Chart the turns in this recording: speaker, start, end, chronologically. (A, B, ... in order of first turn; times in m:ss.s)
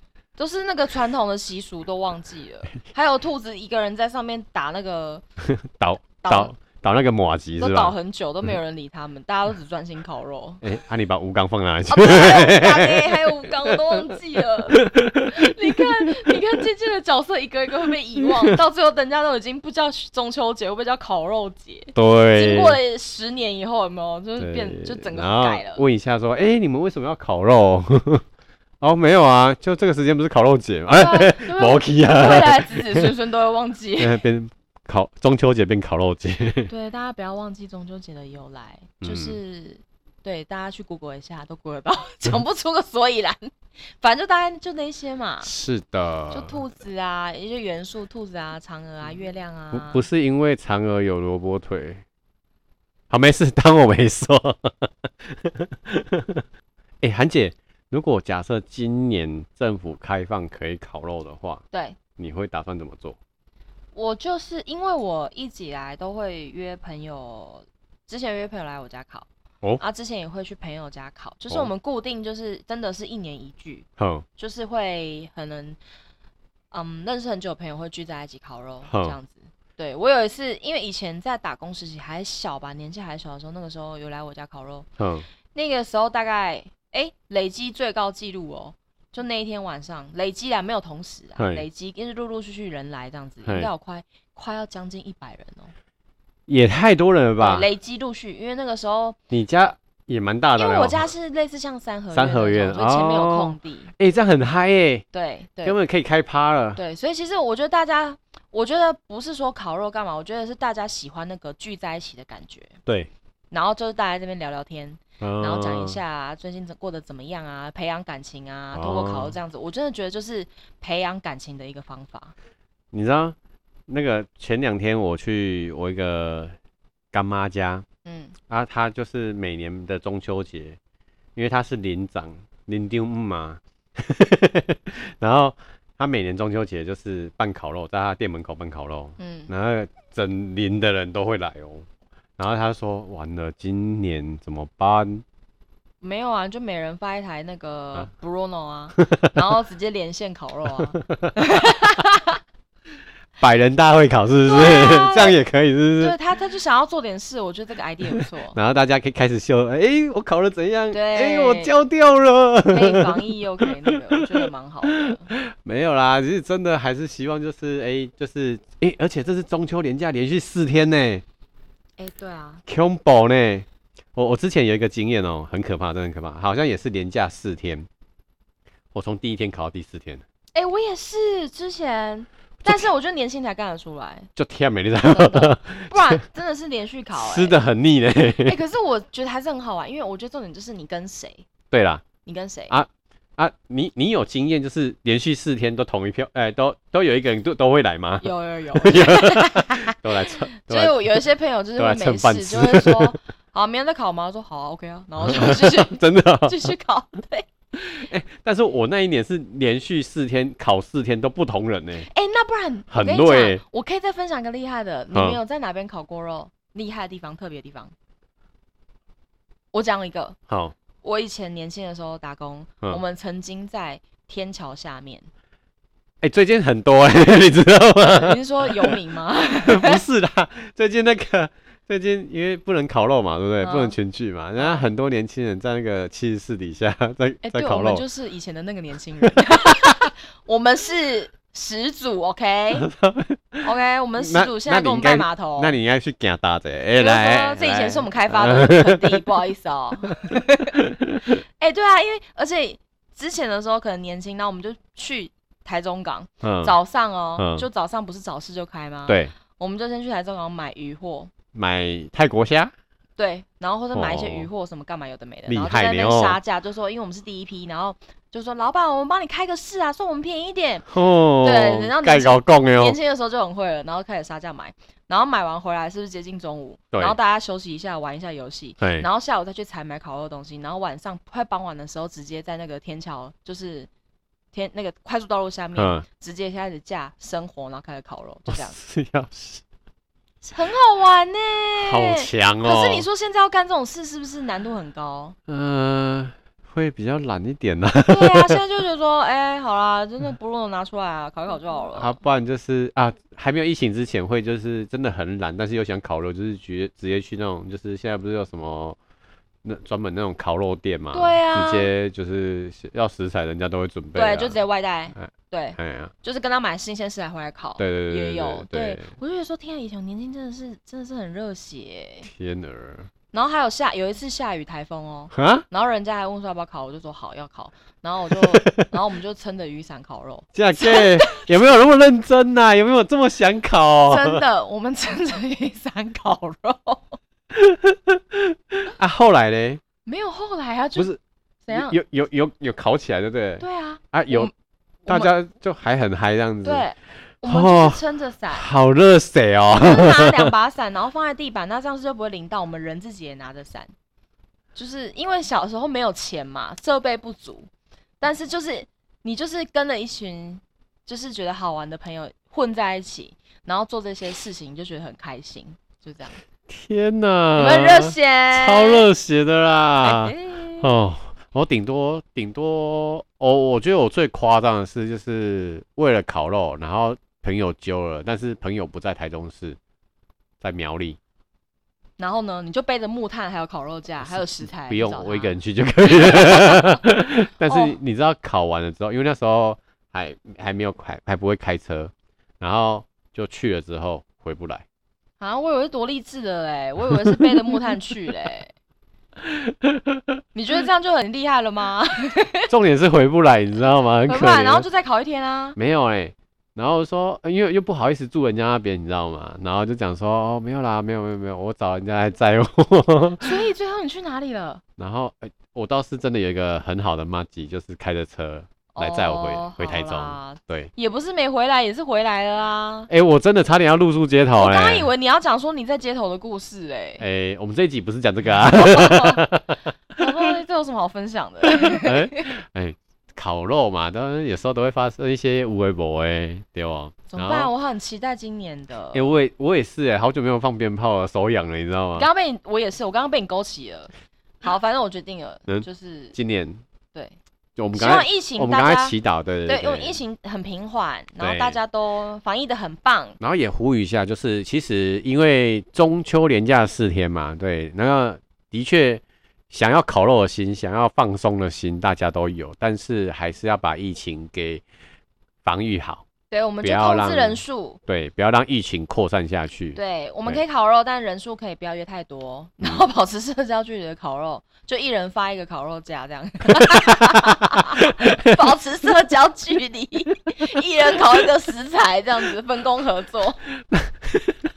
0:00.4-0:05.2 A
0:05.5-0:07.9 B
0:06.2-0:06.5 A
0:07.6-0:10.6 A
0:10.6-0:14.1 B
0:11.9-0:25.8 A
0:14.7-0:16.3 B
0:21.9-0:22.8 B
0:24.4-0:28.2 B
0:28.8-0:33.1 B
0:30.9-0:34.2 A
0:34.0-0:36.7 B
0:36.7-0:45.5 A
0:39.0-0:39.4 B
0:45.4-0:46.6 B
0:46.3-0:50.0 A
0:49.7-0:52.0 B
0:53.1-0:56.4 B
0:57.0-1:01.6 B
1:01.7-1:02.0 A
1:02.2-1:03.2 B
1:03.9-1:09.3 A
1:09.8-1:13.9 A
1:14.0-1:14.2 B
1:14.4-1:15.8 A
1:16.7-1:24.9 A
1:18.9-1:19.2 B
1:25.0-1:25.2 B
1:25.5-1:35.7 A
1:31.4-1:31.6 B
1:33.4-1:33.7 B
1:36.5-1:37.7 B
1:37.4-1:39.2 A
1:39.3-1:41.1 B
1:40.6-1:43.9 A
1:42.1-1:45.0 B
1:45.1-1:45.8 A
1:45.6-1:46.8 B
1:46.8-1:52.8 A
1:52.8-1:53.1 B
1:53.5-2:02.3 A
1:55.2-1:56.0 B
1:58.7-1:59.3 B
2:02.9-2:03.4 B
2:03.9-2:06.6 B
2:07.1-2:07.8 B
2:08.0-2:08.3 A
2:08.5-2:10.8 B
2:11.3-2:21.9 B
2:19.2-2:19.5 A
2:22.4-2:25.2 B
2:26.0-2:32.4 A
2:29.0-2:29.3 B
2:30.9-2:31.3 B
2:33.4-2:36.1 B
2:34.4-2:35.4 A
2:36.0-2:38.6 A
2:38.1-2:51.2 B
2:40.9-2:41.7 A
2:42.7-2:45.3 A
2:52.0-2:52.6 A
2:52.6-2:57.9 B
2:58.9-3:00.2 B
3:00.5-3:04.3 A
3:04.3-3:06.2 B
3:05.0-3:07.6 A
3:07.1-3:08.6 B
3:08.4-3:11.4 A
3:11.7-3:12.0 B
3:12.2-3:12.7 A
3:12.7-3:21.0 B
3:18.2-3:27.5 A
3:21.8-3:23.2 B
3:25.2-3:26.7 B
3:27.8-3:32.1 B
3:32.0-3:37.9 A
3:32.9-3:33.6 B
3:35.1-3:35.4 B
3:39.7-3:40.4 A
3:40.5-3:40.7 B
3:41.0-3:45.3 A
3:46.2-3:49.0 B
3:48.0-3:50.0 A
3:49.6-3:58.0 B
3:53.6-3:54.0 A
3:54.6-3:54.8 A
3:57.4-4:02.9 A
4:02.8-4:03.6 B
4:03.6-4:05.8 A
4:04.2-4:09.2 B
4:07.0-4:21.3 A
4:10.8-4:11.3 B
4:16.4-4:16.8 B
4:17.4-4:17.6 B
4:19.1-4:19.3 B
4:21.5-4:22.7 B
4:23.2-4:30.9 A
4:23.9-4:24.5 B
4:25.5-4:26.4 B
4:30.9-4:33.0 B
4:31.4-4:43.9 A
4:36.9-4:37.2 B
4:38.8-4:39.0 B
4:44.5-4:48.8 A
4:45.8-4:46.0 B
4:48.5-4:49.6 B
4:50.4-4:55.4 A
4:51.8-4:53.0 B
4:55.5-4:58.6 B
4:58.0-5:02.2 A
5:01.9-5:09.0 B
5:09.6-5:14.6 B
5:11.1-5:11.9 A
5:14.1-5:22.3 A
5:15.1-5:16.1 B
5:17.8-5:19.1 B
5:22.3-5:23.1 B
5:23.3-5:31.4 A
5:25.3-5:25.6 B
5:28.4-5:28.9 B
5:30.5-5:34.4 B
5:34.1-5:37.2 A
5:37.5-5:39.8 B
5:40.0-5:41.1 A
5:41.6-5:42.0 A
5:41.7-5:44.5 B
5:43.6-5:44.5 A
5:45.0-5:45.3 A
5:45.1-5:46.8 B
5:46.6-5:48.7 A
5:47.5-5:48.0 B
5:48.5-5:50.5 B
5:49.7-5:53.9 A
5:54.7-5:57.7 A
5:58.2-6:06.4 A
6:06.7-6:19.8 B
6:07.6-6:09.0 A
6:10.0-6:10.9 A
6:20.6-6:21.2 B
6:22.2-6:27.0 A
6:24.2-6:34.8 B
6:27.6-6:28.0 A
6:35.4-6:38.7 A
6:39.4-6:40.4 B
6:40.5-6:42.7 A
6:42.7-6:44.8 B
6:44.3-6:45.8 A
6:45.8-6:53.5 B
6:53.4-6:54.8 A
6:55.0-7:00.9 B
6:58.9-7:03.1 A
7:03.1-7:05.1 B
7:04.6-7:07.2 A
7:07.2-7:09.8 B
7:08.7-7:09.4 A
7:10.2-7:12.4 A
7:11.6-7:17.7 B
7:17.3-7:19.3 A
7:19.1-7:22.3 B
7:22.1-7:26.3 A
7:25.7-7:26.8 B
7:27.8-7:30.2 B
7:27.9-7:29.1 A
7:29.6-7:33.4 A
7:31.4-7:31.8 B
7:33.4-7:44.8 B
7:45.6-7:46.2 B
7:46.5-7:48.0 A
7:46.8-7:50.6 B
7:49.9-8:03.6 A
7:57.7-7:58.5 B
8:03.9-8:04.6 B